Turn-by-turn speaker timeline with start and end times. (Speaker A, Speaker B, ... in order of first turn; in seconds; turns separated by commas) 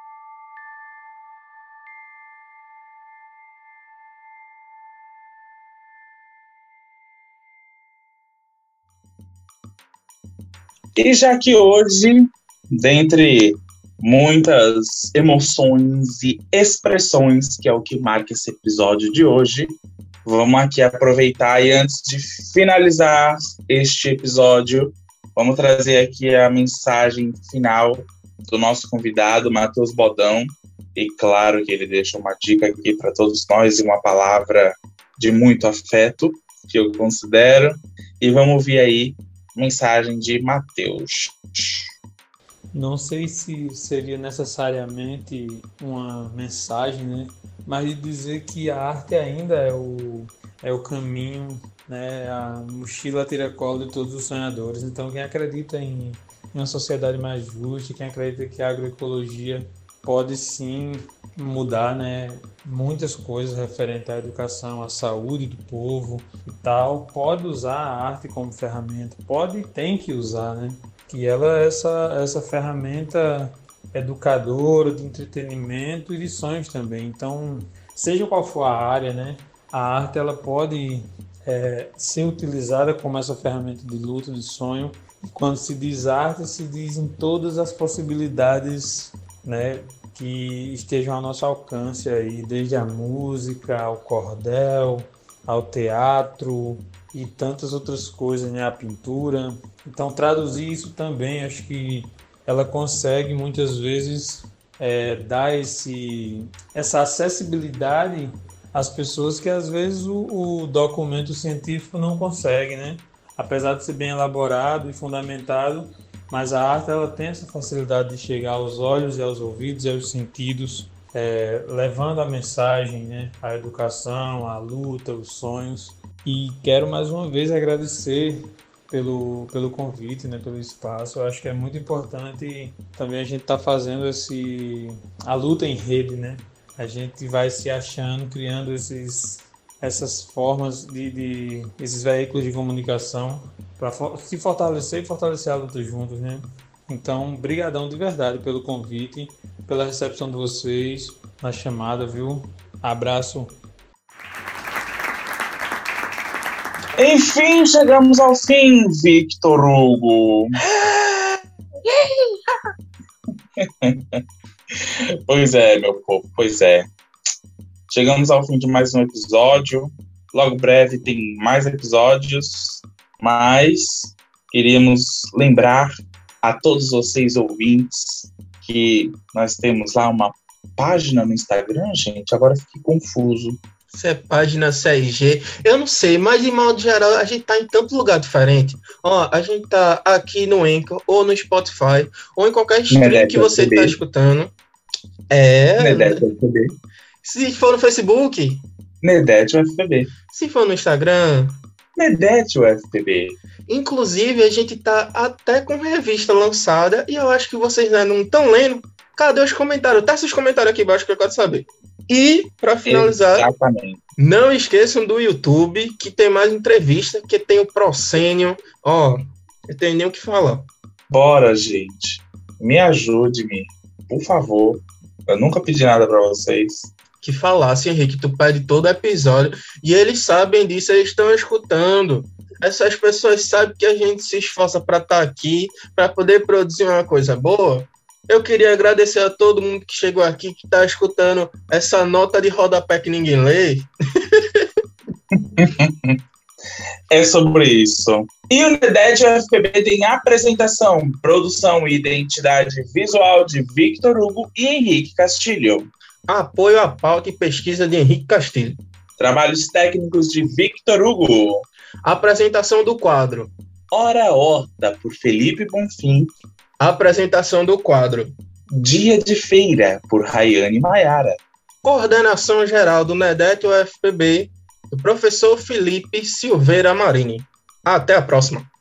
Speaker A: 10.9-41.8, Speaker B: 42.7-153.5, Speaker A: 156.9-160.6, Speaker C: 160.8-161.3, Speaker A: 163.6-164.2, Speaker A: 164.7-166.9, Speaker A: 167.9-183.6, Speaker C: 183.9-194.5, Speaker A: 192.9-194.0, Speaker C: 195.3-196.2, Speaker A: 195.8-196.7, Speaker C: 197.2-198.6, Speaker A: 199.0-200.1, Speaker C: 200.3-201.6, Speaker A: 201.9-203.4, Speaker C: 203.7-213.5, Speaker A: 212.8-214.0, Speaker C: 214.2-220.7, Speaker A: 221.1-226.9, Speaker C: 227.2-244.6, Speaker A: 245.3-246.2, Speaker A: 247.1-255.9, Speaker C: 256.3-258.8, Speaker A: 259.2-261.7, Speaker C: 262.0-263.5, Speaker A: 263.9-266.3, Speaker C: 266.8-268.3, Speaker A: 268.7-271.4, Speaker C: 271.8-278.7